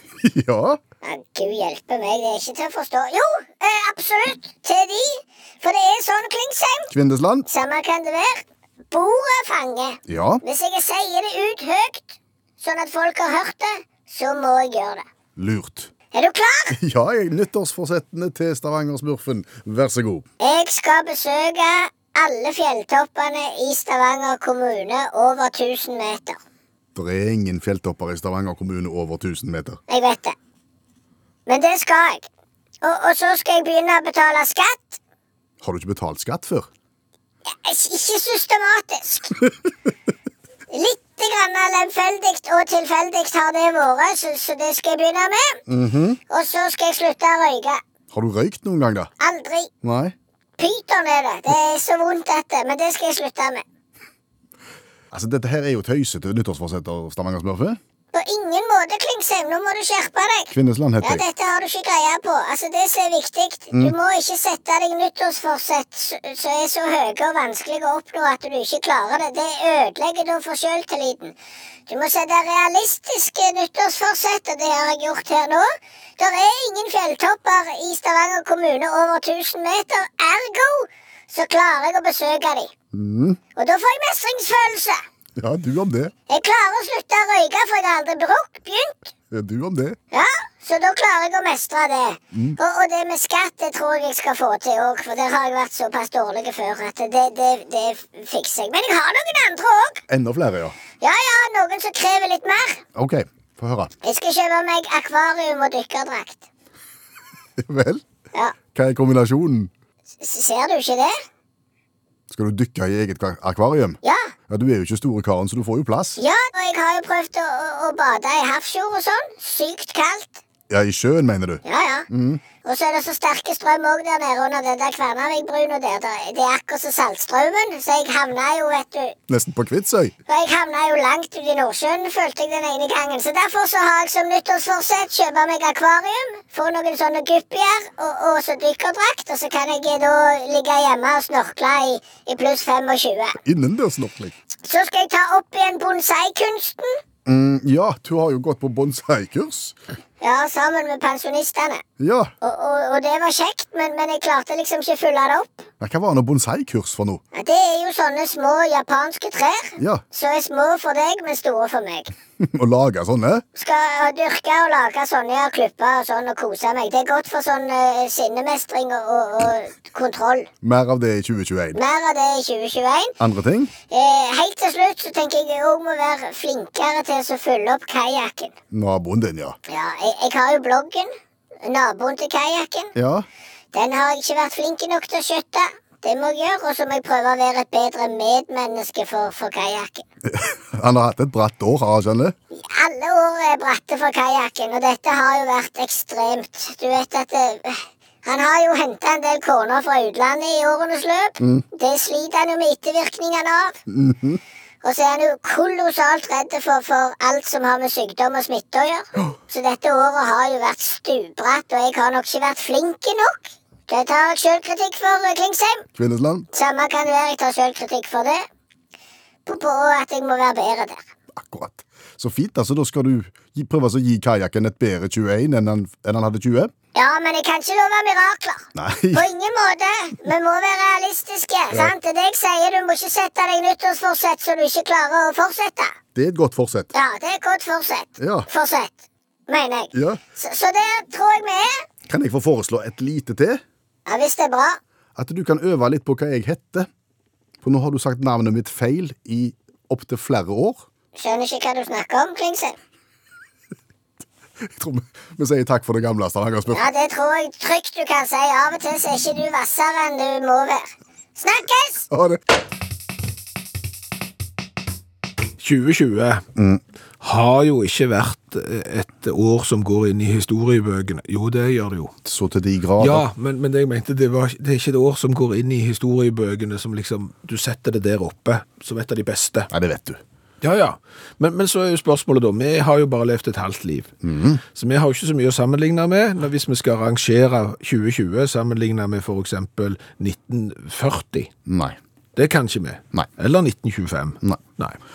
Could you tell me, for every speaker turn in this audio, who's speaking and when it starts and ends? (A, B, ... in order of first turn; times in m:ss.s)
0:00.2-0:00.8 A
0:01.0-0:06.9 B
0:06.9-0:07.5 A
0:07.5-0:15.0 B
0:10.1-0:10.4 A
0:15.4-0:15.9 A
0:16.1-0:16.8 B
0:16.7-0:20.2 A
0:20.4-0:26.4 B
0:26.9-0:29.8 A
0:29.9-0:30.3 B
0:31.5-0:32.3 B
0:32.8-0:35.0 B
0:35.6-0:36.7 A
0:37.6-0:39.3 B
0:40.7-0:45.6 B
0:45.7-0:46.2 A
0:46.3-0:47.8 B
0:48.1-0:49.1 A
0:49.2-0:49.7 B
0:49.8-0:50.1 A
0:50.6-0:53.6 B
0:55.1-0:57.8 A
0:58.1-1:11.3 B
1:00.5-1:01.2 A
1:11.9-1:15.7 B
1:16.2-1:22.7 B
1:22.9-1:23.4 A
1:23.6-1:25.0 B
1:25.4-1:26.1 A
1:26.3-1:29.1 B
1:29.3-1:30.0 A
1:30.1-1:40.0 B
1:32.3-1:32.6 A
1:40.1-1:40.8 A
1:41.0-1:42.8 B
1:42.9-1:44.0 A
1:44.0-1:46.4 B
1:47.6-1:48.0 A
1:48.7-1:49.7 A
1:50.2-1:51.1 B
1:52.3-1:56.2 A
1:54.0-1:54.3 B
1:56.2-2:00.4 B
2:00.7-2:02.4 A
2:01.6-2:02.0 B
2:02.6-2:09.1 B
2:09.3-2:10.1 A
2:10.3-2:23.4 B
2:23.4-2:24.3 A
2:24.6-2:27.0 B
2:27.2-2:29.8 A
2:30.2-2:31.8 B
2:32.0-2:32.3 A
2:32.4-2:35.6 B
2:35.8-2:37.2 A
2:37.3-2:42.1 B
2:39.8-2:40.0 A
2:42.4-2:43.4 A
2:43.6-2:50.5 B
2:50.6-2:51.8 A
2:51.7-2:53.1 B
2:53.2-2:53.7 A
2:53.9-2:58.5 B
2:58.7-2:59.6 A
2:59.7-3:01.1 B
3:01.6-3:02.9 B
3:03.0-3:03.2 A
3:03.7-3:10.0 B
3:10.2-3:12.3 A
3:12.5-3:23.8 B
3:23.9-3:24.4 A
3:24.8-3:35.8 B
3:35.9-3:36.5 A
3:36.5-3:38.4 B
3:39.4-3:41.0 B
3:41.3-3:46.7 A
3:46.9-3:55.9 B
3:48.7-3:49.2 A
3:56.1-3:56.9 A
3:56.9-4:01.8 B
3:58.2-3:58.5 A
3:59.9-4:00.2 A
4:02.1-4:03.6 A
4:04.1-4:04.8 B
4:05.2-4:06.9 A
4:07.6-4:10.8 A
4:11.2-4:12.7 B
4:14.6-4:16.9 A
4:16.7-4:22.0 B
4:22.1-4:22.4 A
4:25.6-4:26.4 C
4:26.5-4:26.8 A
4:27.2-4:32.1 C
4:32.2-4:33.2 A
4:33.0-4:39.7 C
4:39.7-4:40.2 A
4:40.6-4:44.1 C
4:44.2-4:44.6 A
4:44.7-4:51.5 C
4:51.7-4:52.0 A
4:52.4-4:55.0 C